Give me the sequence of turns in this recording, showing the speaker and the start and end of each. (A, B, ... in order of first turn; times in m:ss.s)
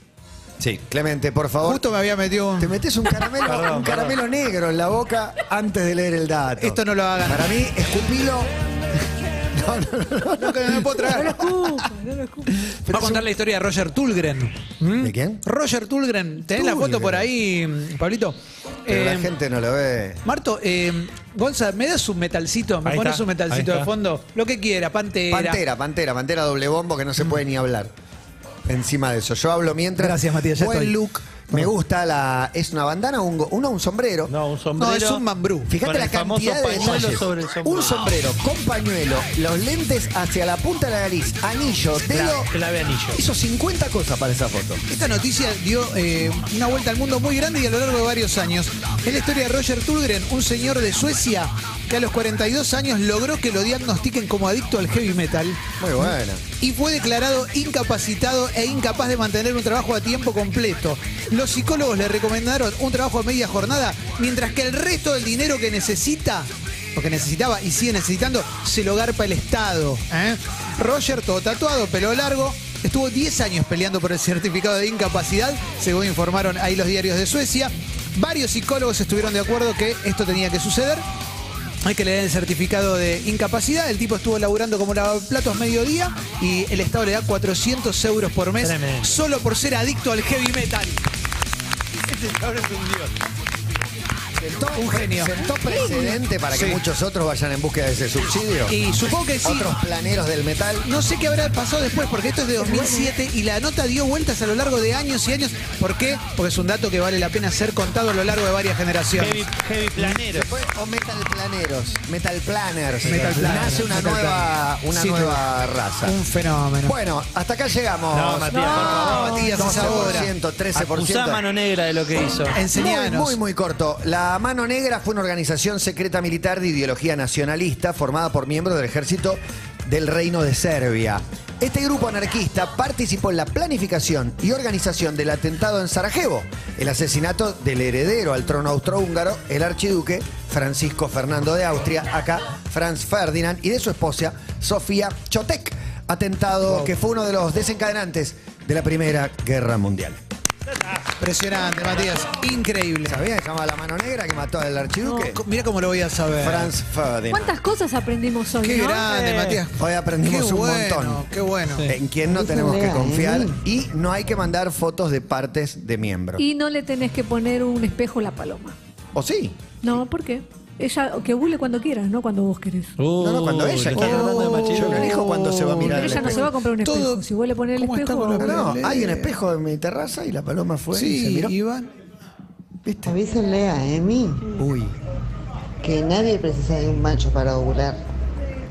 0:00.6-0:01.9 A
0:01.6-0:02.8 B
0:02.6-0:08.5 A
0:03.4-0:04.2 C
0:06.6-0:07.5 B
0:09.5-0:11.4 A
0:10.4-0:11.5 B
0:11.1-0:12.5 D
0:12.7-0:13.3 A
0:12.8-0:19.3 B
0:15.0-0:15.4 A
0:16.5-0:17.3 A
0:18.9-0:20.2 A
0:20.2-0:25.6 B
0:22.8-0:23.9 C
0:25.3-0:27.9 A
0:28.6-0:34.3 A
0:30.0-0:31.7 B
0:34.3-0:35.2 C
0:34.8-0:35.7 B
0:35.7-0:42.5 A
0:35.8-0:38.1 C
0:42.0-0:43.2 C
0:43.1-0:44.8 A
0:44.9-1:21.0 B
0:55.8-0:56.4 A
1:21.8-1:31.0 B
1:28.6-1:29.2 C
1:32.1-1:33.1 C
1:34.4-1:40.9 A
1:34.7-1:35.4 B
1:35.6-1:36.2 D
1:36.5-1:36.8 B
1:38.7-1:39.8 B
1:40.8-1:49.5 B
1:42.6-1:43.1 D
1:49.2-1:50.5 C
1:50.0-1:56.2 A
1:53.0-1:55.4 B
1:56.0-1:57.0 B
1:56.8-2:01.4 A
1:58.1-1:59.9 C
1:58.5-2:00.0 D
1:58.8-2:00.3 B
2:00.7-2:02.6 C
2:02.5-2:03.4 B
2:02.7-2:30.2 A
2:26.6-2:26.9 B
2:31.2-2:33.2 B
2:33.0-2:35.4 A
2:35.0-2:35.3 D
2:35.3-2:36.7 B
2:36.4-2:37.5 A
2:37.3-2:39.1 D
2:38.6-2:41.9 B
2:39.1-2:39.6 C
2:39.8-2:41.2 A
2:41.9-2:46.4 A
2:42.2-2:43.6 E
2:46.4-2:48.8 D
2:49.1-2:49.6 A
2:49.8-2:52.9 D
2:53.0-2:55.1 C
2:53.2-2:56.5 A
2:53.9-2:59.3 B
2:55.8-2:58.7 D
2:58.4-3:01.5 A
3:00.9-3:01.9 B
3:02.8-3:03.2 A
3:03.0-3:04.5 E
3:04.6-3:05.0 A
3:05.8-3:08.1 E